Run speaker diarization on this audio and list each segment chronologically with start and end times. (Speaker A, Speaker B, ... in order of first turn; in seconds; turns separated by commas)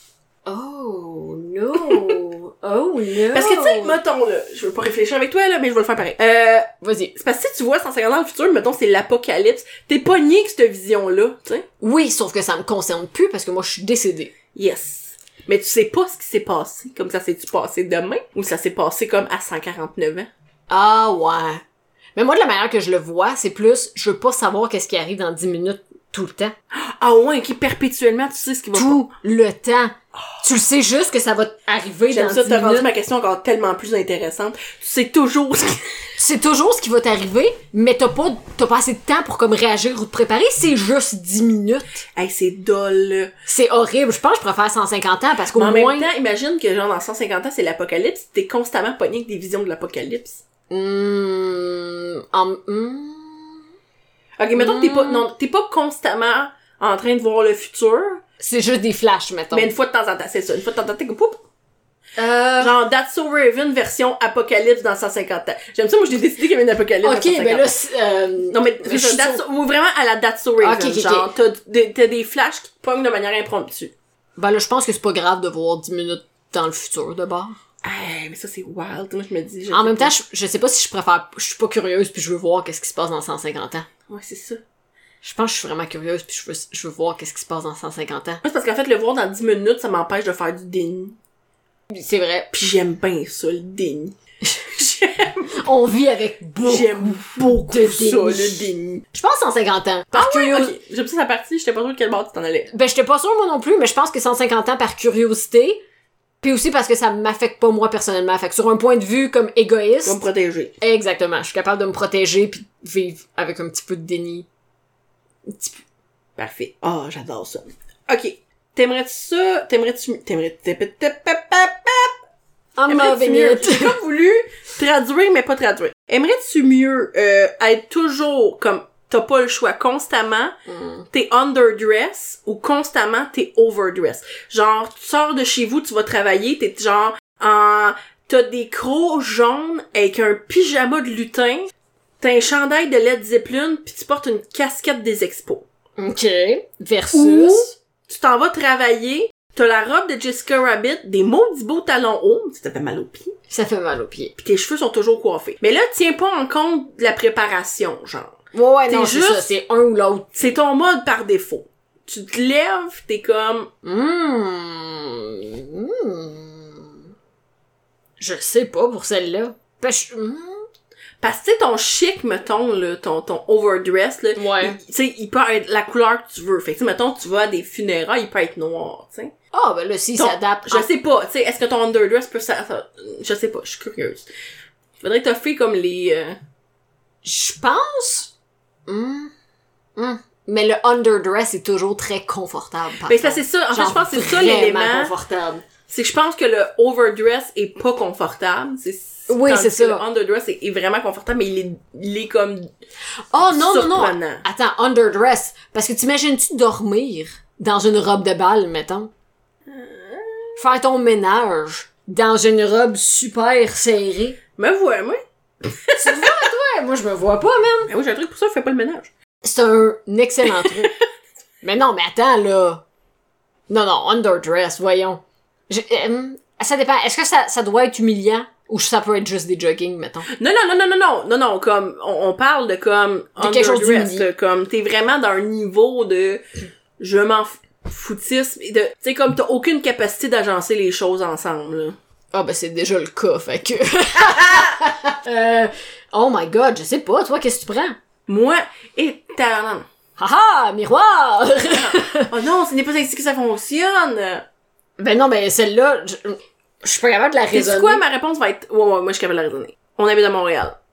Speaker A: 0.5-4.0, Speaker B: 1.9-2.2, Speaker B: 3.3-11.7, Speaker A: 6.8-7.1, Speaker A: 11.8-14.3, Speaker B: 14.5-20.3, Speaker A: 20.7-21.6, Speaker A: 22.1-26.5, Speaker B: 26.7-29.0, Speaker A: 28.8-32.9, Speaker B: 32.1-35.9, Speaker A: 36.2-42.0, Speaker B: 42.1-43.3, Speaker A: 43.5-46.1, Speaker B: 45.5-50.4, Speaker A: 50.7-53.6, Speaker B: 54.4-58.2, Speaker A: 54.5-55.3, Speaker A: 58.4-59.7, Speaker B: 59.5-61.4, Speaker A: 62.2-62.7, Speaker B: 62.6-67.7, Speaker A: 67.0-69.4, Speaker B: 68.5-73.9, Speaker A: 70.6-71.3, Speaker A: 74.4-77.5, Speaker B: 77.8-80.2, Speaker A: 79.7-83.9, Speaker B: 84.1-84.6, Speaker A: 85.2-88.4, Speaker B: 88.4-91.2, Speaker A: 91.9-92.6, Speaker B: 92.5-94.2, Speaker B: 94.7-95.6, Speaker A: 95.5-100.8, Speaker B: 96.6-99.0, Speaker B: 100.1-102.7, Speaker A: 102.7-105.8, Speaker A: 106.4-110.2, Speaker B: 110.0-110.8, Speaker A: 110.8-114.5, Speaker A: 115.5-115.8, Speaker B: 116.4-122.2, Speaker A: 122.8-124.0, Speaker B: 122.9-130.6, Speaker A: 130.7-131.1, Speaker B: 131.1-145.7, Speaker A: 146.0-147.8, Speaker B: 147.1-153.3, Speaker A: 153.5-154.3, Speaker B: 154.4-158.4, Speaker A: 158.5-160.5, Speaker B: 158.9-159.5, Speaker B: 160.4-163.7, Speaker A: 163.8-167.0, Speaker A: 168.2-170.7, Speaker B: 171.2-179.3, Speaker A: 174.4-174.8, Speaker A: 179.5-180.9, Speaker B: 180.2-184.3, Speaker B: 185.0-186.4, Speaker A: 187.2-188.3, Speaker A: 188.9-189.3, Speaker A: 190.0-195.6, Speaker B: 193.1-195.1, Speaker B: 195.9-202.7, Speaker A: 199.3-200.0, Speaker A: 203.3-209.1, Speaker B: 203.4-204.4, Speaker B: 209.7-210.6, Speaker A: 210.6-214.4, Speaker B: 214.6-216.4, Speaker A: 216.0-217.9, Speaker B: 217.9-219.1, Speaker A: 219.4-221.0, Speaker B: 220.5-220.9, Speaker A: 221.6-222.8, Speaker A: 223.7-230.3, Speaker B: 230.3-236.4, Speaker A: 233.4-234.2, Speaker B: 237.0-242.0, Speaker A: 242.3-248.0, Speaker B: 244.2-244.8, Speaker B: 248.3-249.9, Speaker A: 250.2-252.3, Speaker B: 251.7-254.4, Speaker A: 255.0-258.0, Speaker B: 257.5-260.8